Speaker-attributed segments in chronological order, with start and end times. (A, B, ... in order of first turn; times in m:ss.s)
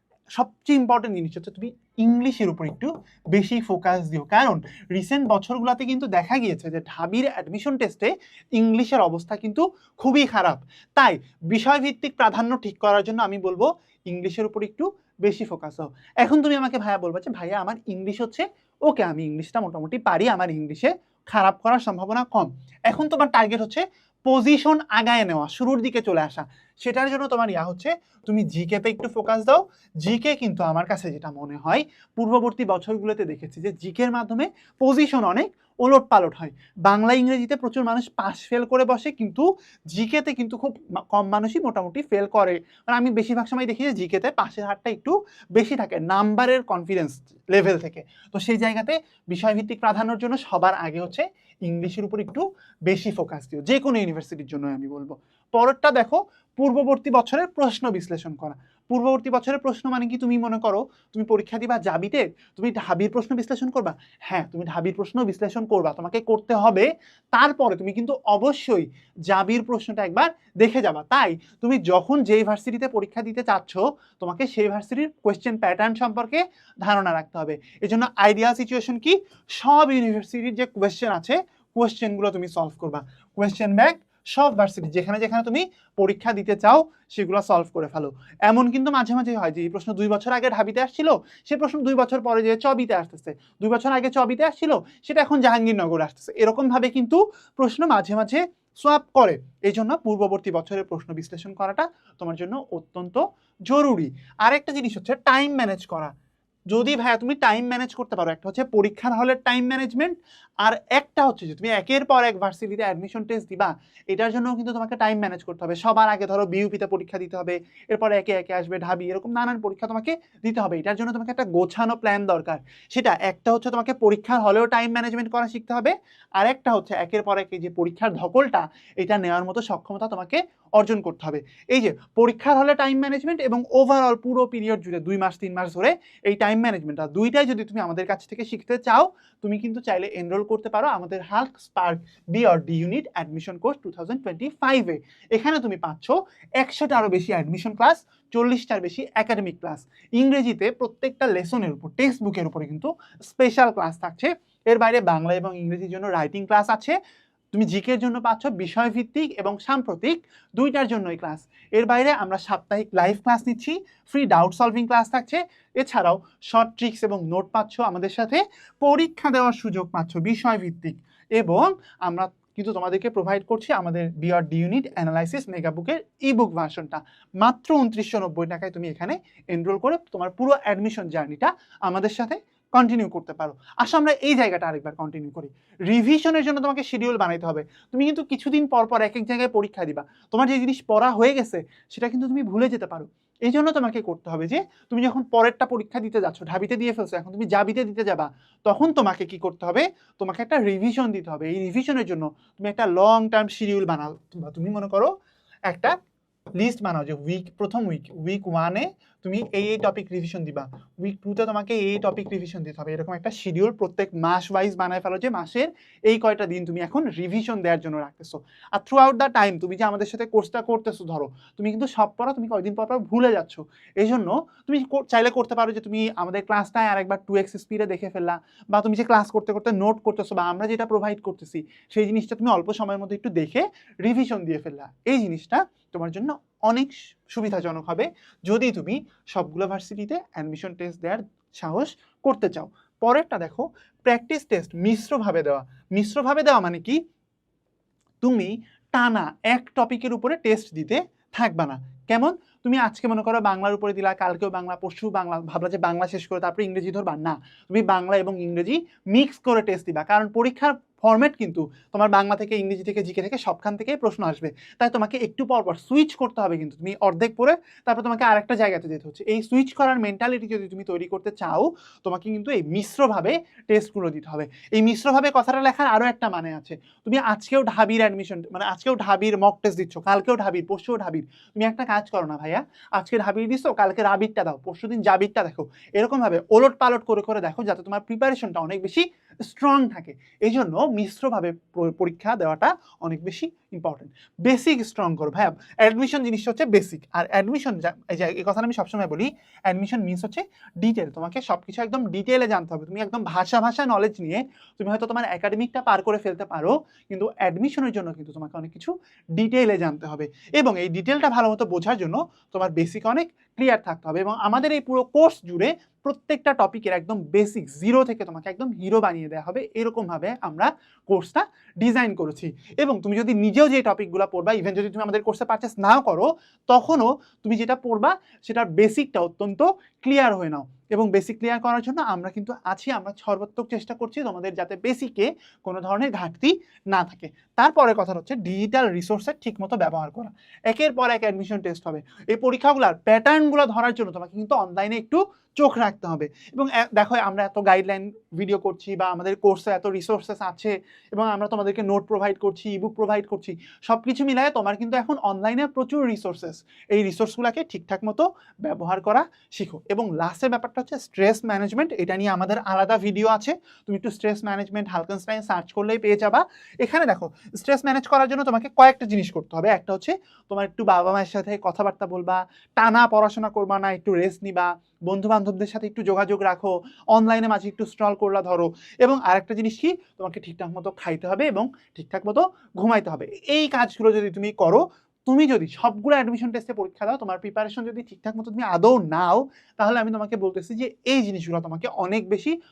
0:00.3-1:46.1 A
1:46.7-2:37.0 A
2:37.5-3:25.1 A
3:25.7-3:26.0 A
3:26.6-4:07.0 A
4:08.2-6:32.5 A